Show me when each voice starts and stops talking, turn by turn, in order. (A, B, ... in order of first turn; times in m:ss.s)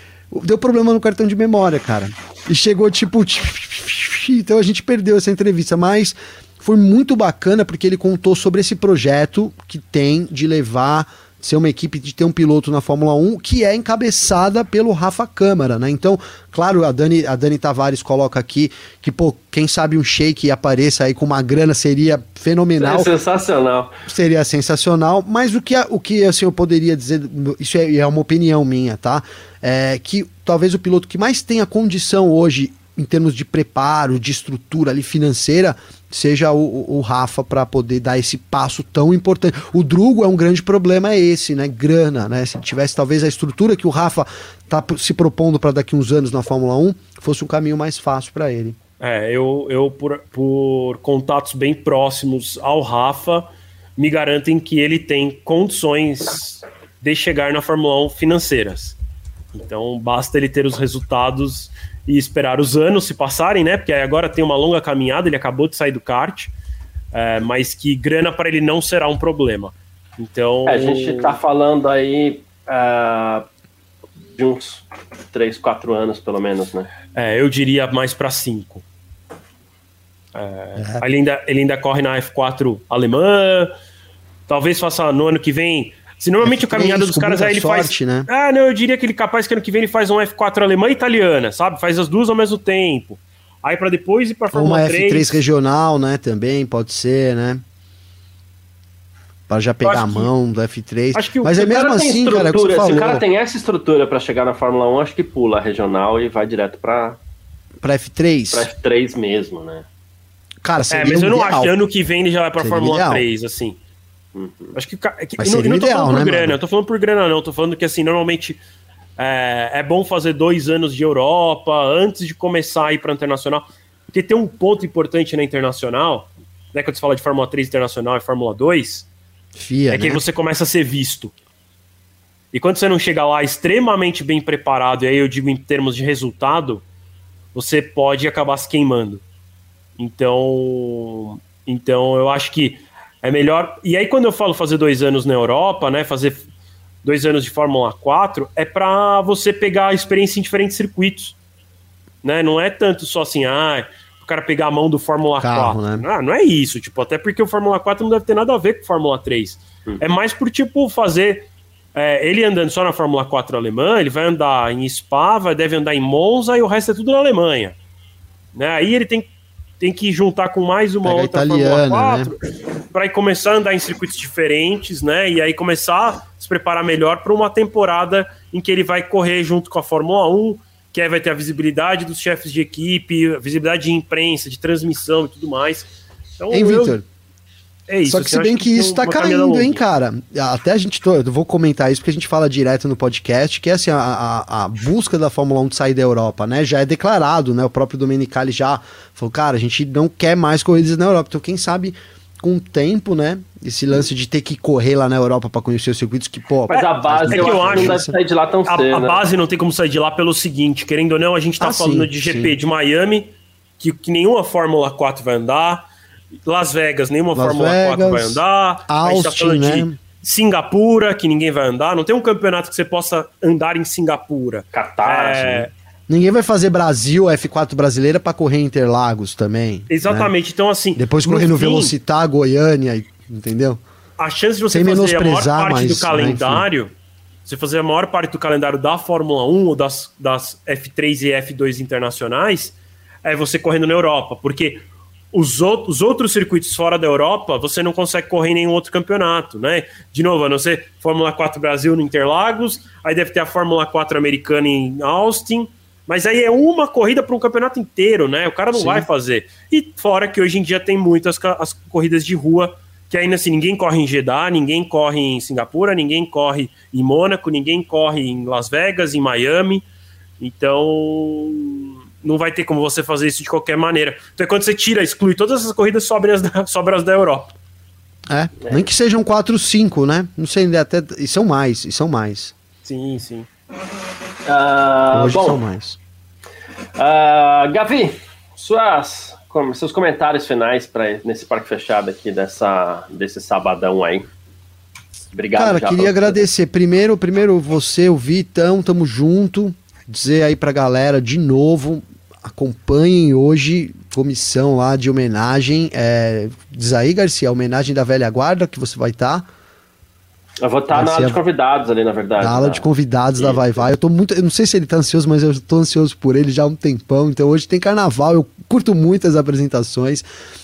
0:00.3-0:23.1 A
0:22.8-0:23.9 B
0:24.1-0:48.8 A
0:49.0-0:59.0 C
0:59.5-1:06.5 C
1:07.1-1:11.4 C
1:10.7-1:13.5 B
1:14.4-1:16.9 B
1:17.2-1:18.8 C
1:20.3-1:23.7 C
1:20.8-1:21.0 A
1:24.5-1:35.4 C
1:26.4-1:28.3 A
1:34.5-1:37.6 A
1:39.5-1:43.2 A
1:39.8-1:40.3 C
1:41.1-1:41.8 C
1:41.6-1:47.2 B
1:47.8-1:48.7 A
1:48.5-1:49.9 B
1:50.6-1:51.7 A
1:50.9-1:53.8 C
1:52.6-1:53.2 A
1:54.4-1:54.8 B
1:54.8-1:58.6 C
1:55.4-1:56.6 A
1:59.2-2:09.1 C
2:09.6-2:10.2 A
2:09.9-2:11.3 C
2:12.5-2:16.8 C
2:17.5-2:19.2 C
2:20.0-2:26.5 C
2:27.0-2:31.4 C
2:32.2-2:47.8 C
2:35.4-2:36.1 A
2:48.5-2:49.3 C
2:49.8-2:52.4 C
2:51.0-2:52.3 A
2:52.9-3:07.0 C
3:06.5-3:07.0 A
3:07.9-3:09.8 C
3:08.1-3:28.1 A
3:26.7-3:29.2 B
3:27.3-3:28.1 C
3:28.7-3:35.8 C
3:31.6-3:32.6 A
3:36.4-3:45.7 C
3:37.4-3:40.0 A
3:44.7-3:45.7 B
3:46.1-3:50.3 A
3:49.9-3:51.9 C
3:51.0-3:53.8 A
3:54.2-3:56.9 C
3:54.7-3:56.6 A
3:57.4-4:29.8 C
4:18.7-4:19.1 A
4:30.4-4:37.5 C
4:38.3-4:42.5 A
4:42.8-4:43.5 C
4:44.5-4:45.6 B
4:45.1-4:46.0 A
4:47.0-4:54.3 B
4:55.3-4:56.4 B
4:55.6-5:09.5 A
5:10.6-5:13.8 B
5:10.9-5:11.4 A
5:12.4-5:20.3 A